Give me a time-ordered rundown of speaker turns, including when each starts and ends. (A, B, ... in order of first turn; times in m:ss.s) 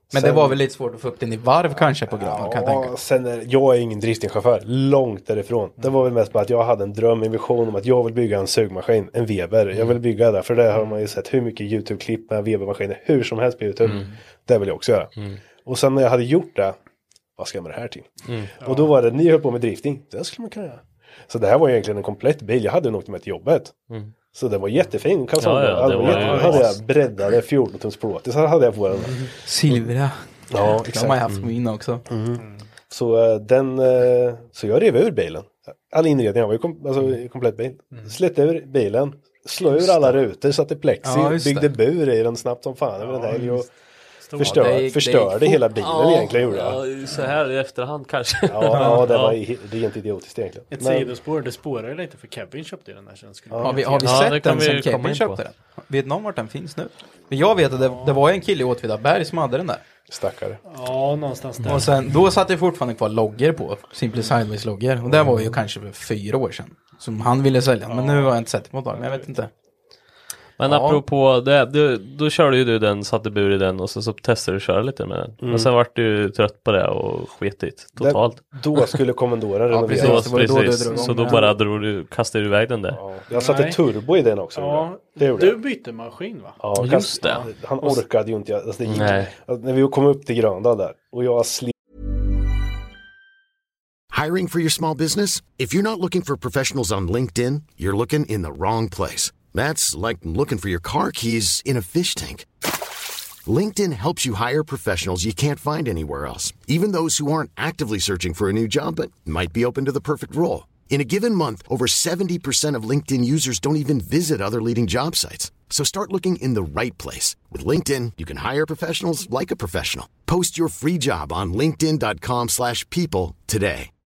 0:00.1-0:02.9 A
0:00.1-0:00.6 B
0:02.1-0:15.1 B
0:15.6-0:16.7 B
0:17.4-0:18.1 B
0:18.3-0:18.5 C
0:18.6-0:23.7 B
0:18.6-0:19.0 D
0:24.3-0:29.3 B
0:25.4-0:26.8 C
0:26.0-0:26.7 D
0:29.0-0:29.3 D
0:29.4-0:32.0 A
0:30.5-0:31.2 B
0:32.1-0:43.7 B
0:41.0-0:41.7 A
0:43.0-0:43.7 D
0:44.2-0:44.8 D
0:44.4-0:45.6 A
0:44.4-0:46.8 B
0:45.8-0:49.4 C
0:48.5-0:51.1 B
0:48.7-0:49.1 A
0:50.7-0:54.3 D
0:53.5-0:54.0 B
0:53.6-0:59.8 A
0:54.0-0:55.4 C
0:57.7-0:58.2 D
1:00.1-1:00.6 B
1:00.6-1:01.9 D
1:01.6-1:09.5 A
1:05.1-1:05.4 B
1:07.9-1:08.3 D
1:08.9-1:09.3 D
1:10.6-1:19.0 C
1:10.6-1:11.0 A
1:15.4-1:15.7 B
1:18.0-1:20.6 B
1:19.7-1:21.5 A
1:19.9-1:23.0 C
1:20.9-1:21.4 D
1:22.9-1:25.6 B
1:23.3-1:23.8 D
1:24.5-1:26.6 D
1:26.6-1:31.7 B
1:26.7-1:27.5 C
1:28.9-1:29.3 C
1:34.1-1:42.5 E
1:43.4-2:03.9 E